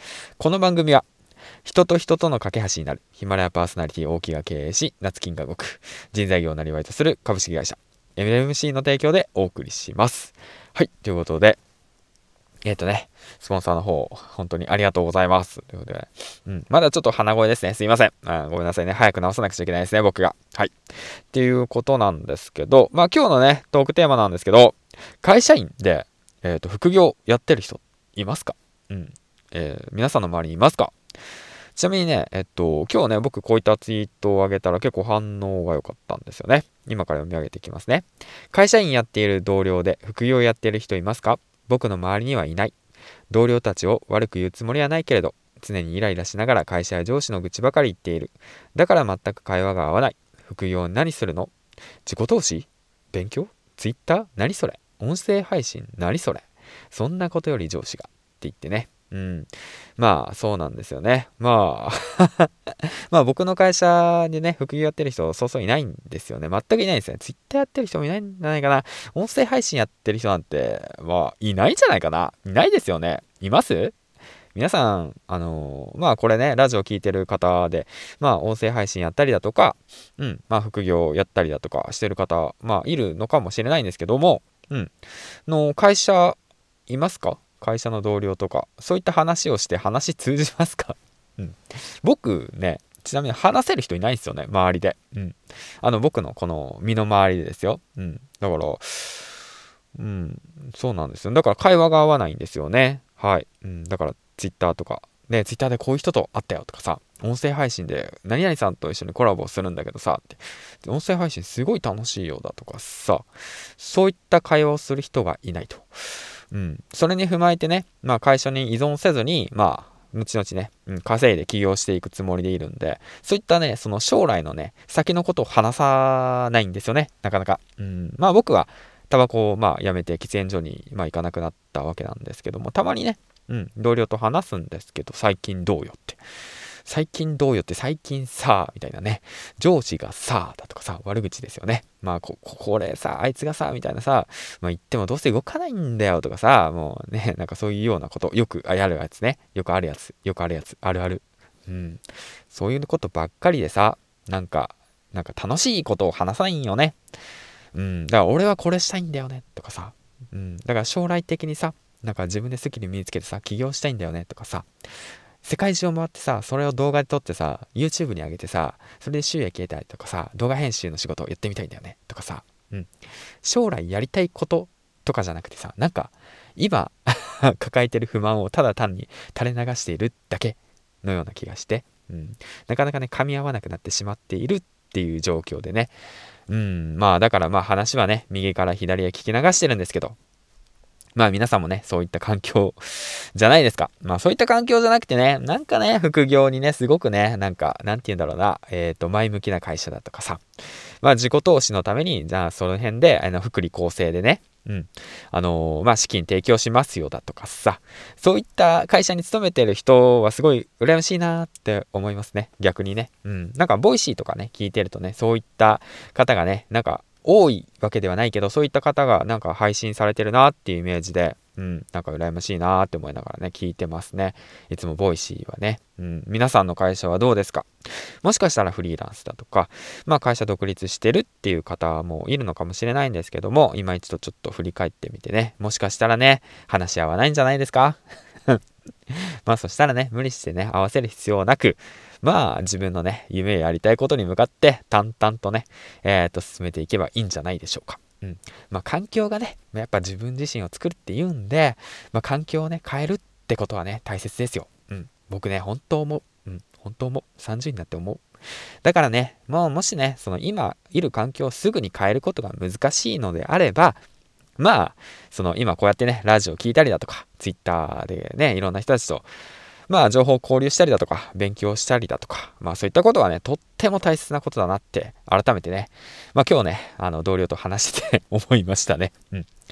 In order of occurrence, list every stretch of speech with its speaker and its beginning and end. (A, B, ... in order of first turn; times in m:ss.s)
0:00.4-0:01.0 A
0:01.6-0:11.6 A
0:12.6-0:31.0 A
0:31.8-0:42.8 A
0:43.3-0:51.5 A
0:52.0-1:02.5 A
1:03.1-1:13.9 A
1:14.6-1:24.9 A
1:25.5-1:26.4 A
1:26.9-1:39.3 A
1:40.0-1:56.0 A
1:56.5-2:16.2 A
2:16.8-2:37.0 A
2:37.7-2:44.7 A
2:45.4-3:06.0 A
3:06.5-3:10.2 A
3:11.2-3:20.4 A
3:21.0-3:47.7 A
3:48.2-4:18.2 A
4:18.8-4:24.0 A
4:24.6-4:29.3 A
4:29.9-4:39.5 A